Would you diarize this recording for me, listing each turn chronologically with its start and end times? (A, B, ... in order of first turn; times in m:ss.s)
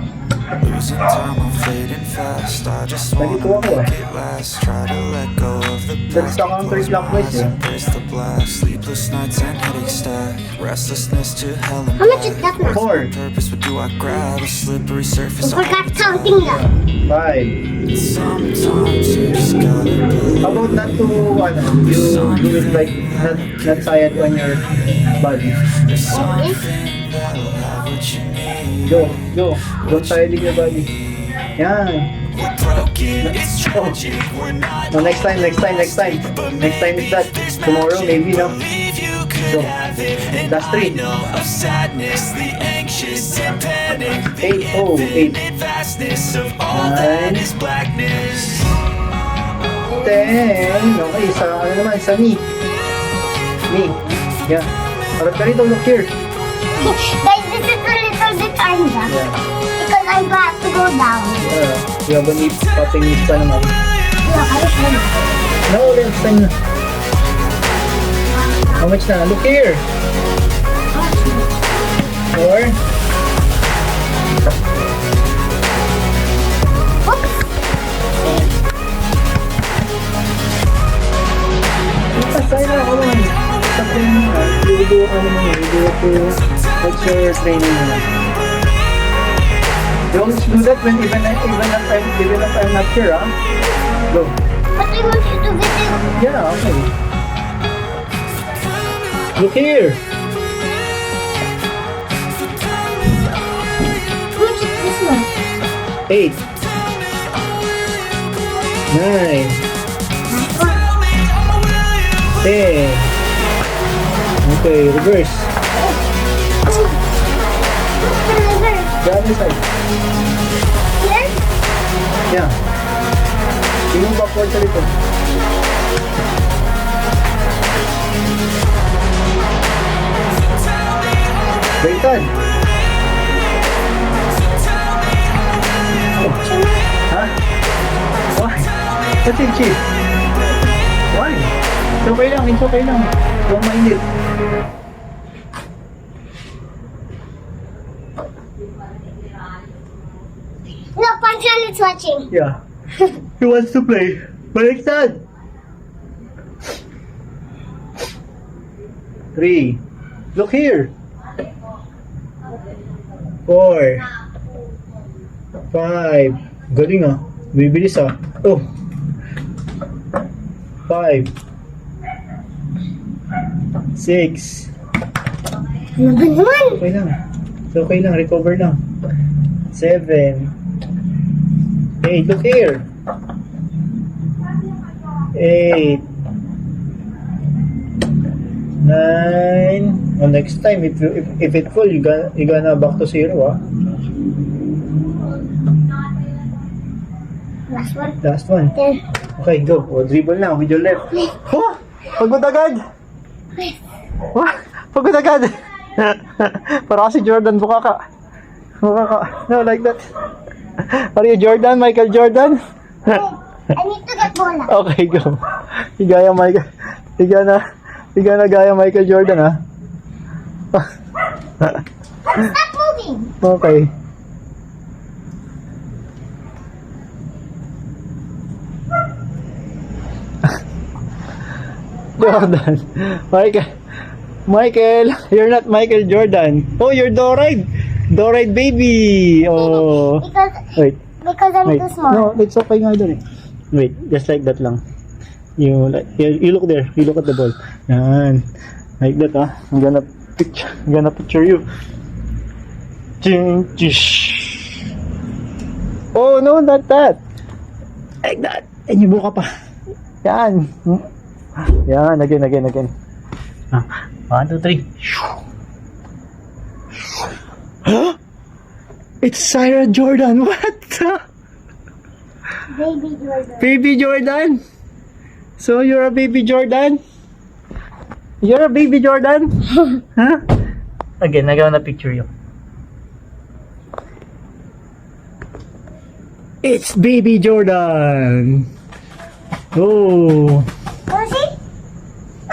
0:00.6-0:03.0 A
0:03.1-0:04.0 B
0:04.0-0:06.0 A
0:06.1-0:07.6 B
0:07.8-0:11.9 A
0:12.0-0:13.0 C
0:12.6-0:13.2 B
0:13.3-0:15.4 A
0:15.4-0:16.7 C
0:16.4-0:17.6 B
0:18.1-0:19.8 A
0:20.4-0:25.8 B
0:26.1-0:26.6 C
0:26.9-0:28.8 A
0:28.8-0:30.9 B
0:31.6-0:32.1 B
0:32.7-0:33.2 A
0:33.2-0:34.0 B
0:34.2-0:34.7 A
0:34.9-0:38.6 B
0:38.9-0:39.3 A
0:39.4-0:39.8 B
0:40.3-0:41.2 B
0:41.2-0:44.3 A
0:44.4-0:45.4 B
0:45.7-0:46.6 A
0:46.7-0:47.6 B
0:47.6-0:48.6 A
0:50.0-0:52.4 B
0:53.7-0:56.1 B
0:56.8-0:59.1 C
0:59.1-0:59.4 B
0:59.8-1:01.4 C
1:01.4-1:03.7 B
1:04.2-1:05.1 C
1:05.7-1:06.5 B
1:08.8-1:09.8 B
1:10.9-1:11.5 C
1:12.3-1:12.8 B
1:17.0-1:17.5 C
1:22.1-1:28.0 B
1:30.1-1:33.3 B
1:34.1-1:34.4 B
1:34.8-1:36.2 C
1:36.2-1:36.9 B
1:39.4-1:40.0 B
1:44.3-1:45.3 C
1:46.1-1:46.4 B
1:48.9-1:49.6 B
1:50.3-1:50.8 C
1:52.4-1:53.1 B
1:54.4-1:55.5 B
1:56.6-1:57.0 C
1:58.0-1:59.0 C
1:59.0-1:59.6 B
2:01.0-2:01.4 C
2:02.3-2:02.5 B
2:03.9-2:04.9 B
2:11.8-2:12.3 B
2:16.2-2:16.8 C
2:17.1-2:17.4 B
2:18.3-2:18.7 B
2:19.2-2:19.8 B
2:21.1-2:24.0 B
2:31.0-2:32.3 C
2:32.3-2:32.6 B
2:33.4-2:35.2 B
2:39.3-2:39.8 B
2:40.3-2:40.9 B
2:43.5-2:44.0 B
2:45.7-2:48.7 B
2:50.9-2:51.3 B
2:53.9-2:54.7 B
2:56.0-2:56.8 C
2:56.8-2:57.2 B
2:57.7-2:58.8 B
2:59.7-3:00.5 B
3:02.0-3:02.8 B
3:05.3-3:06.0 B
3:08.8-3:13.6 B
3:17.7-3:18.2 C
3:18.2-3:18.7 B
3:18.7-3:19.0 C
3:19.4-3:22.8 B
3:24.3-3:28.0 B
3:28.8-3:30.0 B
3:30.9-3:33.2 B
3:33.1-3:34.7 C
3:34.7-3:35.4 B
3:36.0-3:36.6 B
3:37.2-3:37.6 B
3:38.1-3:39.6 B
3:42.2-3:43.3 C
3:43.4-3:43.9 B
3:52.2-3:53.7 B
3:52.2-3:52.5 C
3:54.5-4:00.2 B
3:59.5-4:02.3 C
4:01.7-4:03.2 B
4:03.7-4:04.8 B
4:05.6-4:08.4 B
4:09.0-4:11.6 B
4:13.2-4:14.8 B
4:16.1-4:17.2 B
4:18.2-4:19.5 B
4:20.2-4:21.0 B
4:21.6-4:22.9 B
4:23.7-4:25.3 B
4:27.8-4:28.2 B
4:29.2-4:31.2 B
4:32.7-4:33.7 C
4:33.6-4:34.6 B
4:35.6-4:37.0 B
4:38.4-4:40.4 B
4:41.2-4:42.3 B
4:46.6-4:48.7 B
4:49.7-4:50.7 B
4:51.1-4:51.5 C